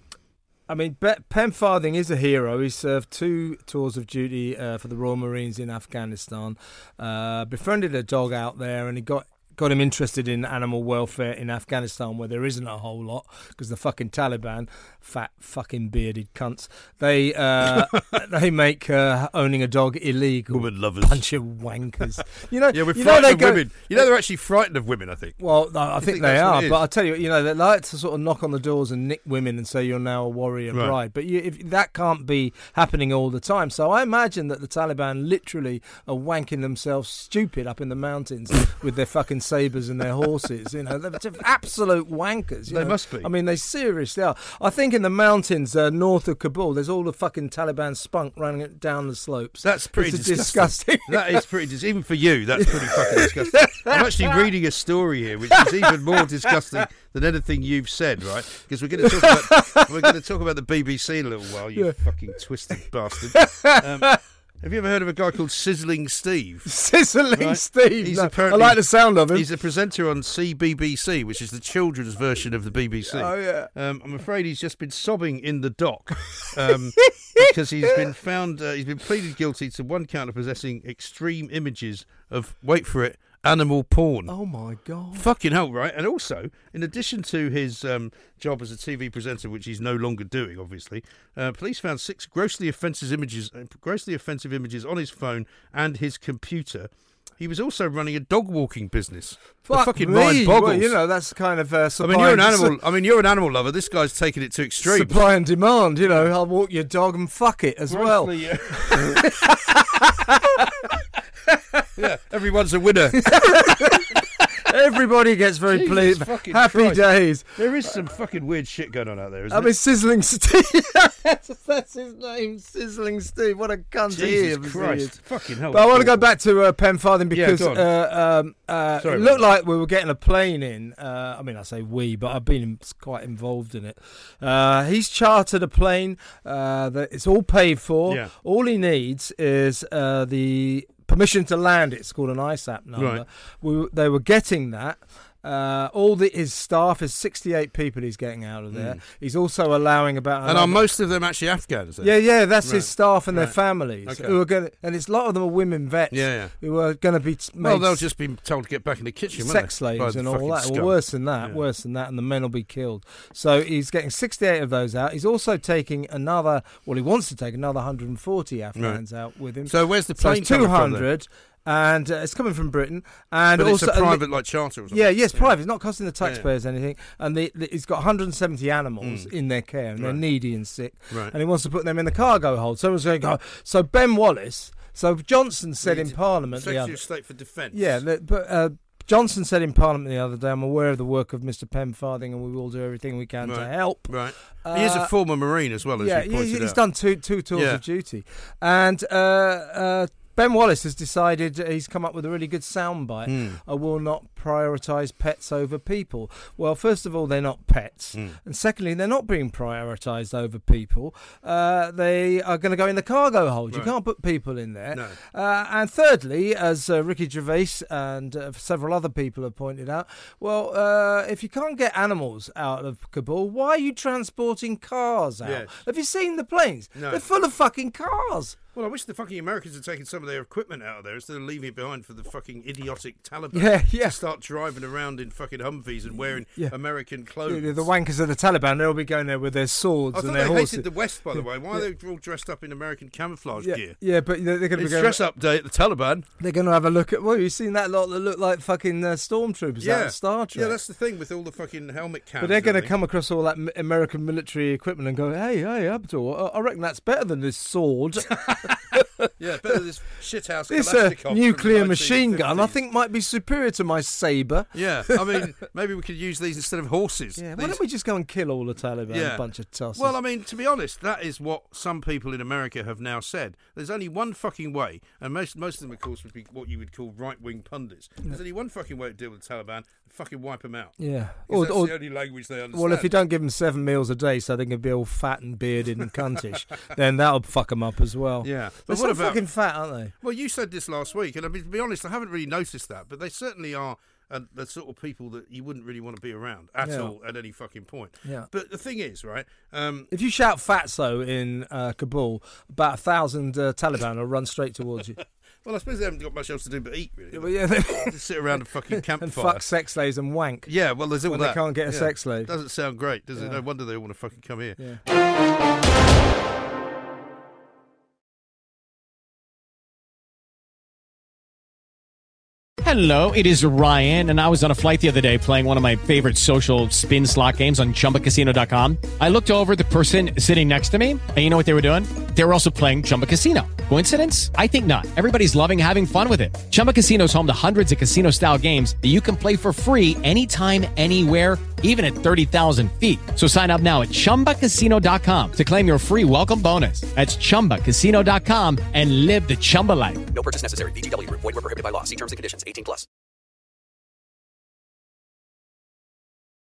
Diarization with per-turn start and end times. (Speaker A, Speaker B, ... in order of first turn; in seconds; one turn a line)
Speaker A: 0.7-24.0
Speaker B: 20.5-21.3
Speaker B: 22.7-25.4
Speaker A: 25.4-51.5
Speaker B: 26.0-26.8
Speaker B: 42.7-43.3
Speaker B: 49.6-66.7
Speaker A: 52.6-54.4
Speaker A: 55.5-56.8
Speaker A: 59.0-60.2
Speaker A: 61.8-64.2
Speaker A: 66.7-69.5
Speaker B: 67.3-84.3
Speaker A: 73.1-73.7
Speaker A: 76.4-78.0
Speaker A: 84.3-85.3
Speaker B: 85.1-101.0
Speaker A: 99.7-102.8
Speaker B: 102.0-105.2
Speaker A: 104.8-110.8
Speaker B: 107.9-109.3
Speaker A: 111.5-111.9
Speaker B: 112.0-113.6
Speaker A: 113.1-117.9
Speaker B: 115.7-119.7
Speaker A: 119.5-150.8
Speaker B: 124.1-126.3
Speaker B: 127.3-127.9
Speaker B: 129.0-129.4
Speaker B: 138.1-138.3
Speaker B: 143.0-143.2
Speaker B: 148.7-149.0
Speaker B: 150.4-154.4
Speaker A: 152.0-158.1
Speaker B: 156.1-156.5
Speaker B: 157.6-161.6
Speaker A: 159.4-174.2
Speaker B: 168.8-169.0
Speaker B: 169.7-171.1
Speaker B: 173.6-175.5
Speaker A: 174.9-187.0
Speaker B: 176.2-176.5
Speaker B: 179.0-179.3
Speaker B: 180.0-180.2
Speaker B: 181.1-181.4
Speaker B: 185.8-188.0
Speaker A: 187.7-195.1
Speaker B: 193.4-196.8
Speaker A: 196.0-228.6
Speaker B: 197.5-197.8
Speaker B: 203.3-203.6
Speaker B: 214.9-215.2
Speaker B: 225.4-225.8
Speaker B: 226.9-227.2
Speaker B: 228.7-237.9
Speaker A: 233.5-234.2
Speaker A: 237.4-241.9
Speaker B: 240.1-244.0
Speaker A: 243.6-245.2
Speaker B: 244.7-246.3
Speaker A: 246.4-250.8
Speaker B: 249.8-252.9
Speaker A: 252.4-259.8
Speaker B: 258.5-258.8
Speaker B: 259.4-262.8
Speaker A: 260.7-265.2
Speaker B: 264.7-267.8
Speaker A: 267.4-270.2
Speaker B: 269.1-283.1
Speaker A: 281.0-282.0
Speaker A: 282.7-290.1
Speaker B: 288.4-289.4
Speaker B: 290.2-300.1
Speaker A: 296.8-297.1
Speaker A: 300.1-305.2
Speaker B: 305.6-309.6
Speaker A: 307.3-308.2
Speaker A: 308.9-310.7
Speaker B: 310.7-314.8
Speaker A: 311.2-312.5
Speaker C: 322.8-350.3
Speaker D: 350.3-353.1